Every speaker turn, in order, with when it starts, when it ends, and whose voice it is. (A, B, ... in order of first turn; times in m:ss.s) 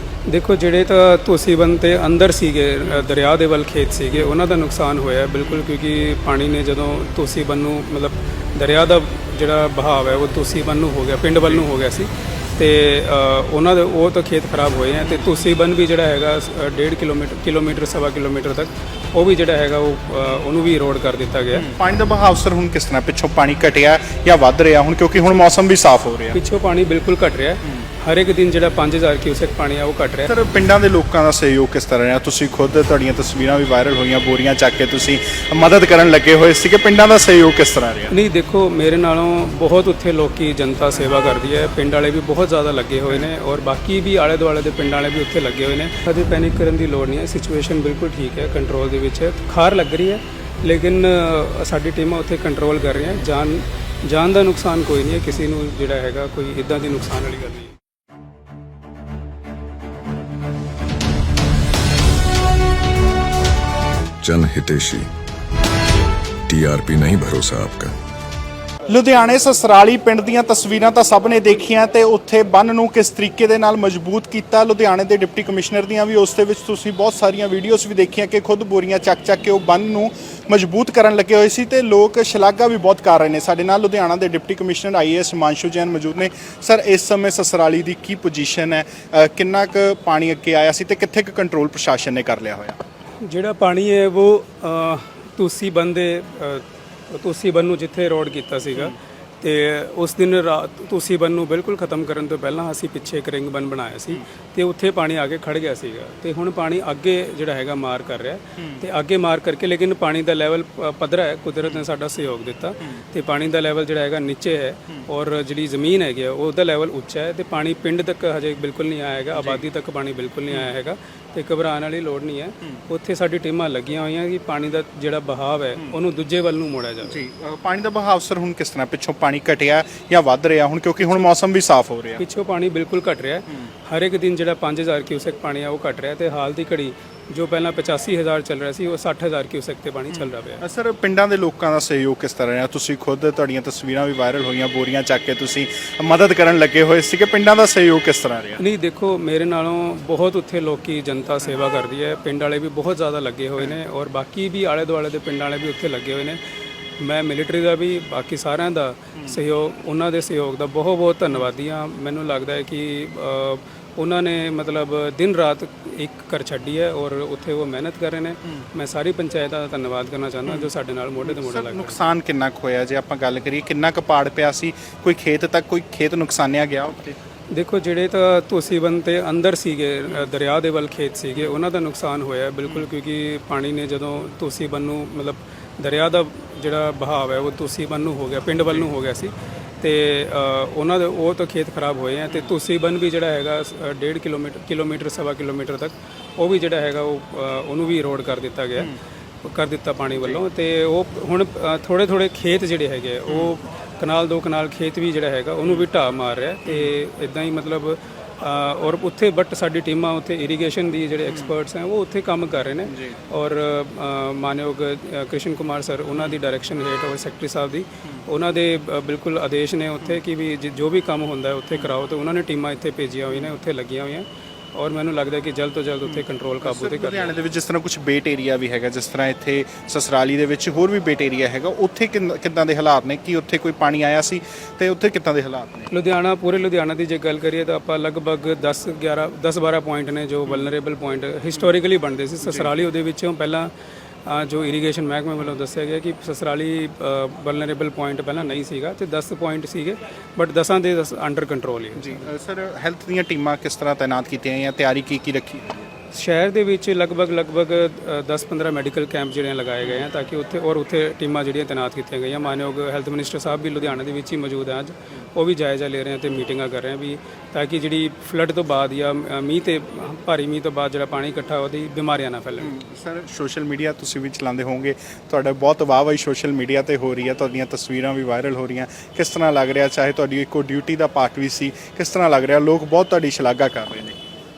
0:00.3-0:21.7 A
0:05.4-0:05.7 B
0:21.5-0:26.4 B
0:26.3-0:30.3 A
0:30.3-0:38.1 B
0:38.1-0:57.8 A
1:04.2-1:05.1 C
1:06.5-1:08.0 C
1:08.9-1:32.8 B
1:33.2-2:07.2 A
1:48.6-1:48.8 B
1:59.4-1:59.6 B
2:07.0-2:12.2 B
2:12.2-2:20.6 A
2:20.1-2:28.6 B
2:28.6-2:36.4 A
2:37.0-2:52.0 A
2:51.2-2:57.2 B
2:57.5-3:18.9 A
3:02.6-3:02.9 B
3:19.4-3:47.4 A
3:20.1-3:20.4 B
3:23.3-3:23.6 B
3:26.7-3:27.0 B
3:32.9-3:33.2 B
3:46.0-3:55.9 B
3:55.9-4:03.7 A
4:02.4-4:02.7 B
4:04.3-4:12.3 A
4:12.0-4:15.9 B
4:16.1-4:32.8 A
4:19.8-4:20.1 B
4:32.6-4:44.2 B